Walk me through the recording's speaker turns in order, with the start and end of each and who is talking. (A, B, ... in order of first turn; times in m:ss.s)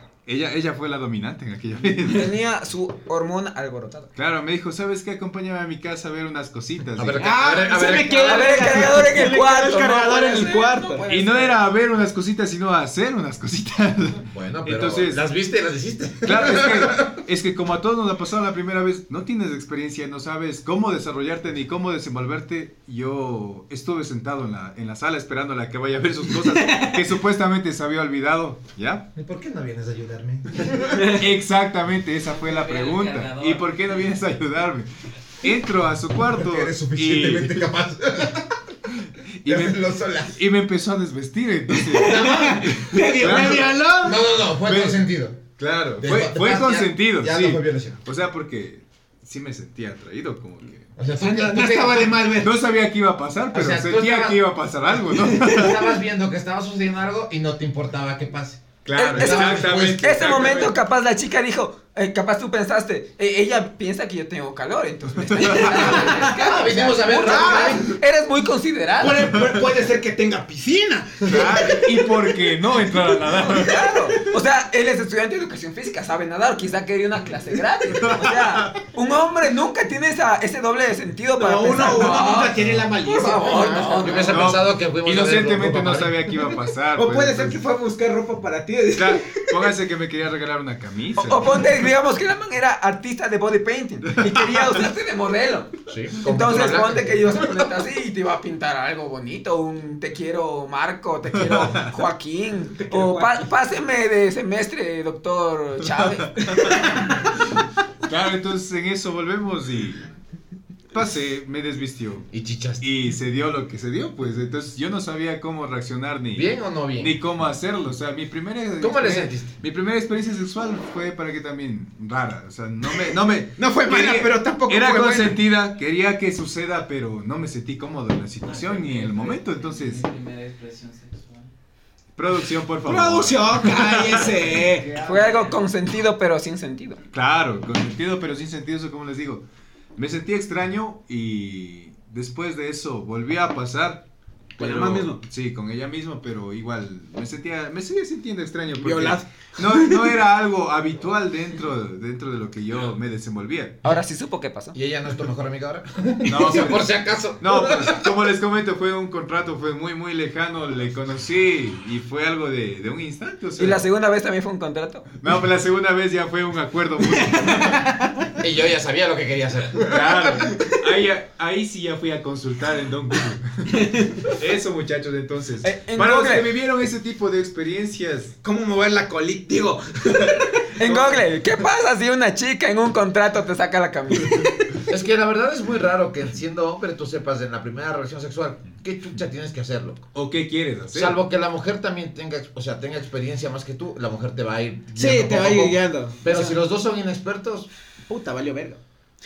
0:00.2-0:02.4 A
0:02.0-0:04.1 B
0:04.2-0:07.3 A
0:07.0-0:08.9 C
0:07.2-0:11.0 D
0:08.0-0:11.6 B
0:11.1-0:15.2 A
0:14.2-0:17.2 C
0:16.2-0:29.1 A
0:26.4-0:27.0 D
0:29.1-0:31.2 C
0:31.1-0:34.9 A
0:32.3-0:33.9 E
0:35.4-0:37.7 A
0:36.4-0:38.6 C
0:39.4-0:43.7 A
0:39.4-0:40.4 C
0:41.7-0:44.3 D
0:42.0-0:45.4 C
0:44.6-0:50.9 A
0:46.0-0:48.0 C
0:51.0-0:52.2 C
0:51.2-0:52.6 D
0:52.4-0:55.8 A
0:53.5-0:54.4 C
0:55.4-1:00.5 C
0:58.8-1:00.8 A
0:58.9-1:09.4 B
1:05.2-1:05.9 A
1:05.7-1:06.4 D
1:05.7-1:08.0 C
1:07.0-1:07.9 D
1:09.0-1:13.4 D
1:11.2-1:13.9 A
1:13.3-1:24.5 B
1:17.9-1:18.7 A
1:21.4-1:24.2 D
1:23.3-1:26.2 C
1:24.3-1:27.6 A
1:26.9-1:29.7 D
1:28.9-1:31.7 A
1:31.2-1:46.9 B
1:34.1-1:34.8 A
1:35.9-1:37.7 C
1:41.3-1:41.9 A
1:42.8-1:43.5 D
1:45.8-1:46.9 A
1:46.5-1:47.0 D
1:48.0-1:50.1 A
1:50.9-1:52.3 A
1:52.3-1:52.8 C
1:52.8-2:10.0 A
1:56.3-1:57.2 C
1:58.8-1:59.5 C
2:03.6-2:05.4 D
2:08.4-2:11.5 E
2:12.2-2:14.4 A
2:12.8-2:14.9 D
2:14.5-2:15.6 E
2:15.0-2:17.0 B
2:17.1-2:19.4 A
2:20.0-2:24.0 A
2:24.6-2:33.8 A
2:24.6-2:25.2 D
2:28.7-2:30.2 D
2:33.8-2:34.8 B
2:34.7-2:38.1 C
2:36.2-2:43.8 A
2:43.6-2:45.1 B
2:45.2-2:47.9 A
2:47.3-2:48.0 D
2:48.4-2:50.5 C
2:49.8-2:58.3 A
2:53.7-2:54.3 D
2:55.6-2:56.5 B
2:58.4-3:01.2 D
3:00.8-3:04.5 B
3:04.9-3:10.1 C
3:10.1-3:11.2 A
3:10.9-3:17.7 C
3:15.0-3:16.6 D
3:18.1-3:18.8 D